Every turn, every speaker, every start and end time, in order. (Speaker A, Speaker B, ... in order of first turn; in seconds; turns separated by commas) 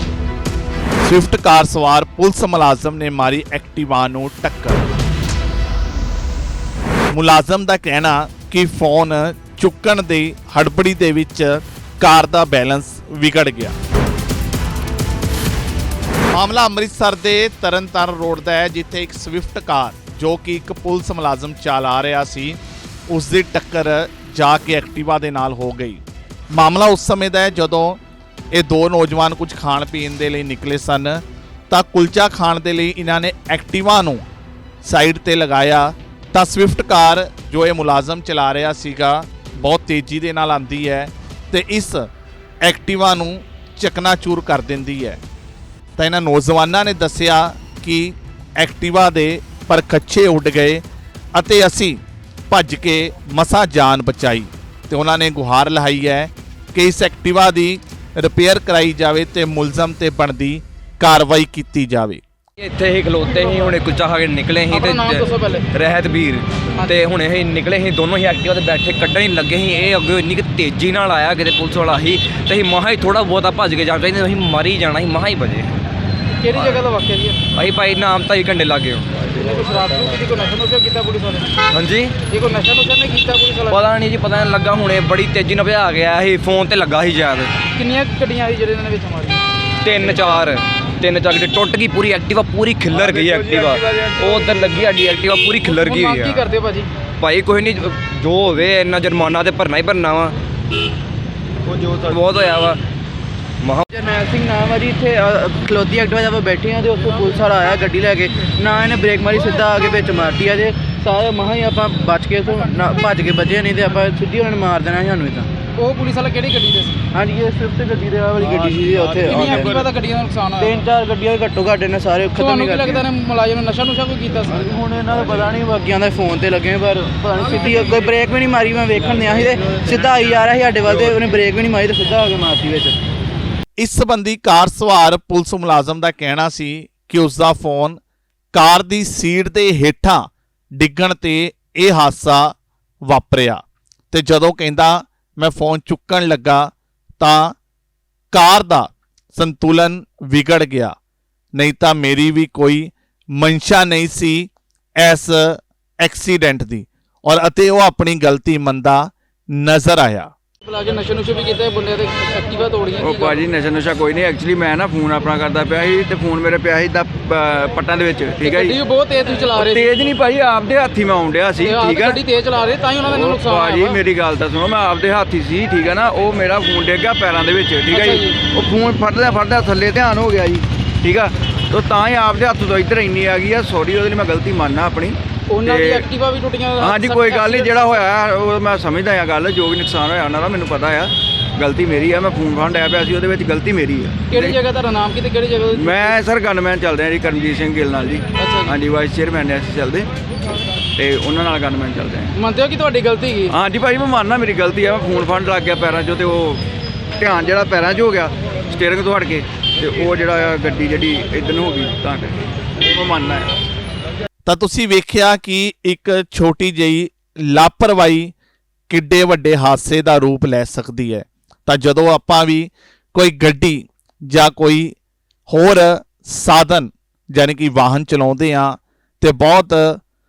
Speaker A: 1.0-4.9, Speaker A: 7.1-13.8, Speaker A: 16.3-28.0, Speaker A: 28.5-34.2, Speaker A: 34.8-42.1, Speaker A: 42.6-45.2, Speaker A: 46.0-50.8, Speaker A: 51.4-62.2, Speaker B: 62.6-75.7, Speaker C: 64.7-65.7, Speaker C: 76.4-77.4, Speaker B: 76.5-76.8, Speaker B: 77.5-79.3, Speaker C: 79.3-81.5, Speaker B: 81.7-82.2, Speaker C: 82.3-83.8, Speaker B: 83.7-87.5, Speaker C: 87.8-89.4, Speaker B: 89.8-96.5, Speaker D: 93.0-94.1, Speaker C: 95.8-96.9, Speaker B: 97.2-100.3, Speaker D: 101.7-102.1, Speaker B: 102.0-102.8, Speaker E: 103.9-115.5, Speaker C: 115.8-117.0, Speaker E: 117.1-119.8, Speaker D: 118.5-119.6, Speaker C: 119.2-120.8, Speaker E: 120.6-123.0, Speaker C: 122.4-124.6, Speaker E: 124.5-133.0, Speaker A: 133.8-138.0, Speaker A: 138.5-142.5, Speaker A: 143.1-147.6, Speaker A: 148.3-150.9, Speaker A: 151.6-160.3, Speaker C: 160.6-163.4, Speaker D: 163.0-168.8, Speaker C: 168.4-169.9, Speaker D: 169.5-172.2, Speaker C: 171.6-174.0, Speaker D: 173.0-186.1, Speaker C: 177.9-178.4, Speaker C: 185.5-188.0, Speaker D: 186.8-194.6, Speaker C: 194.3-196.2, Speaker D: 195.7-200.1, Speaker C: 198.4-198.8, Speaker D: 201.0-202.3, Speaker C: 202.3-203.6, Speaker D: 203.5-206.6, Speaker D: 207.2-213.5, Speaker A: 214.4-218.3, Speaker A: 218.9-224.9, Speaker A: 225.5-230.0